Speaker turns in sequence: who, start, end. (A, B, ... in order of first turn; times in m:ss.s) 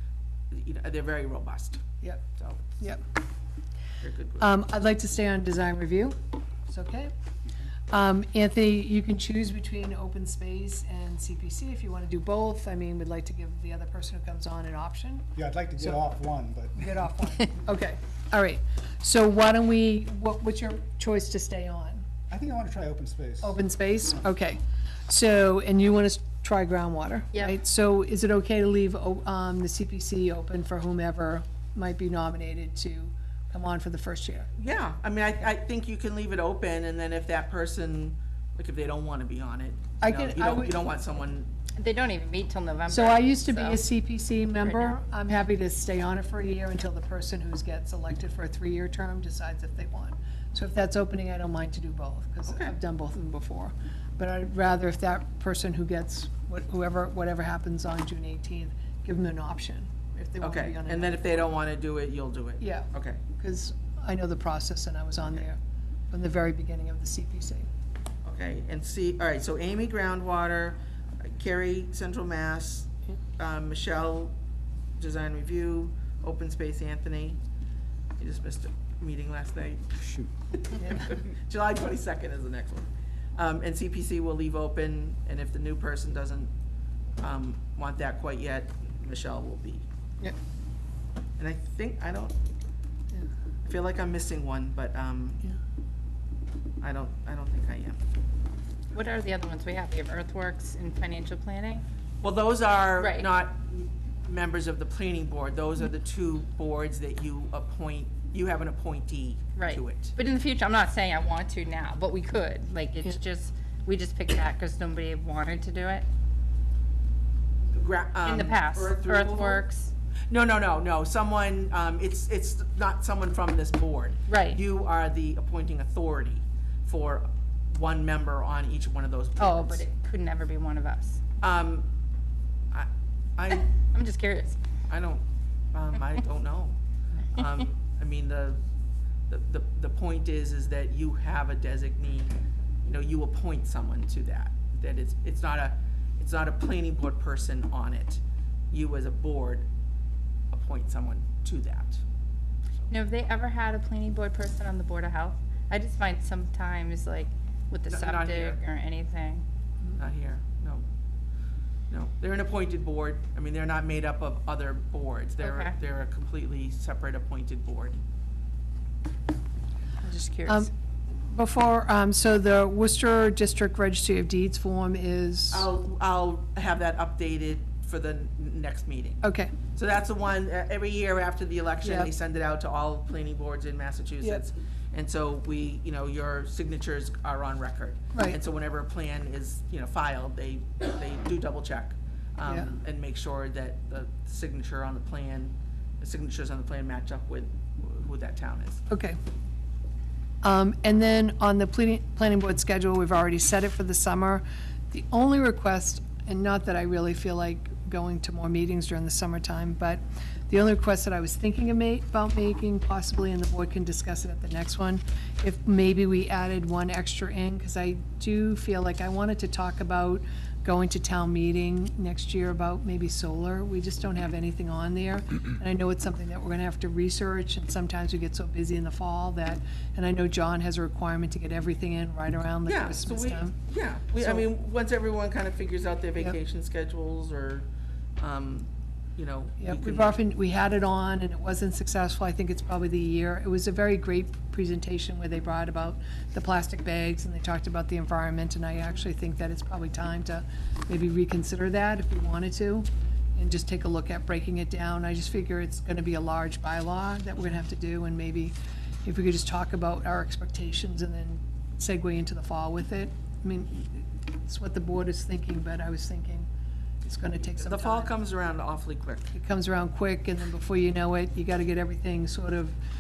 0:00.5-0:01.8 A
0:02.0-0:02.3 B
0:02.4-0:02.6 A
0:04.0-0:04.5 A
0:04.4-0:06.2 B
0:06.7-0:07.1 B
0:07.9-0:16.0 B
0:15.4-0:17.0 C
0:16.8-0:22.1 B
0:22.3-0:23.6 C
0:23.4-0:34.5 B
0:34.6-0:41.5 A
0:40.0-0:40.8 B
0:41.8-0:43.8 D
0:42.9-1:01.5 B
0:44.6-0:45.0 D
0:52.5-0:52.7 A
1:00.4-1:03.2 A
1:02.6-1:05.6 B
1:06.1-1:07.7 B
1:08.2-1:14.3 A
1:15.0-1:17.4 A
1:18.2-1:26.5 A
1:20.8-1:21.1 B
1:27.2-1:29.9 A
1:31.4-1:32.4 A
1:33.7-1:35.4 A
1:36.8-1:38.0 A
1:38.9-1:41.8 D
1:42.2-1:50.2 A
1:43.0-1:43.3 D
1:49.6-1:56.1 D
1:57.7-1:59.6 A
1:58.2-1:59.9 D
2:00.3-2:09.9 A
2:04.3-2:04.6 D
2:09.4-2:11.2 D
2:11.4-2:11.9 A
2:12.7-2:13.7 A
2:13.7-2:14.6 D
2:14.9-2:16.8 A
2:17.4-2:18.6 A
2:19.3-2:29.7 A
2:30.5-2:32.0 A
2:32.9-2:39.4 D
2:37.9-2:38.6 A
2:40.0-2:40.8 A
2:41.9-2:48.0 A
2:45.4-2:45.7 D
2:50.0-2:50.7 D
2:51.3-2:55.7 B
2:55.5-2:59.2 A
2:59.2-2:59.5 B
2:59.7-3:18.8 A
3:01.8-3:02.1 B
3:08.1-3:08.4 B
3:12.5-3:12.7 B
3:18.9-3:19.2 B
3:20.4-3:53.6 B
3:52.7-3:57.7 A
3:54.1-3:54.5 B
3:58.2-4:00.2 A
3:59.6-4:26.5 B
4:27.0-4:28.1 B
4:27.6-4:29.3 A
4:29.3-4:32.8 B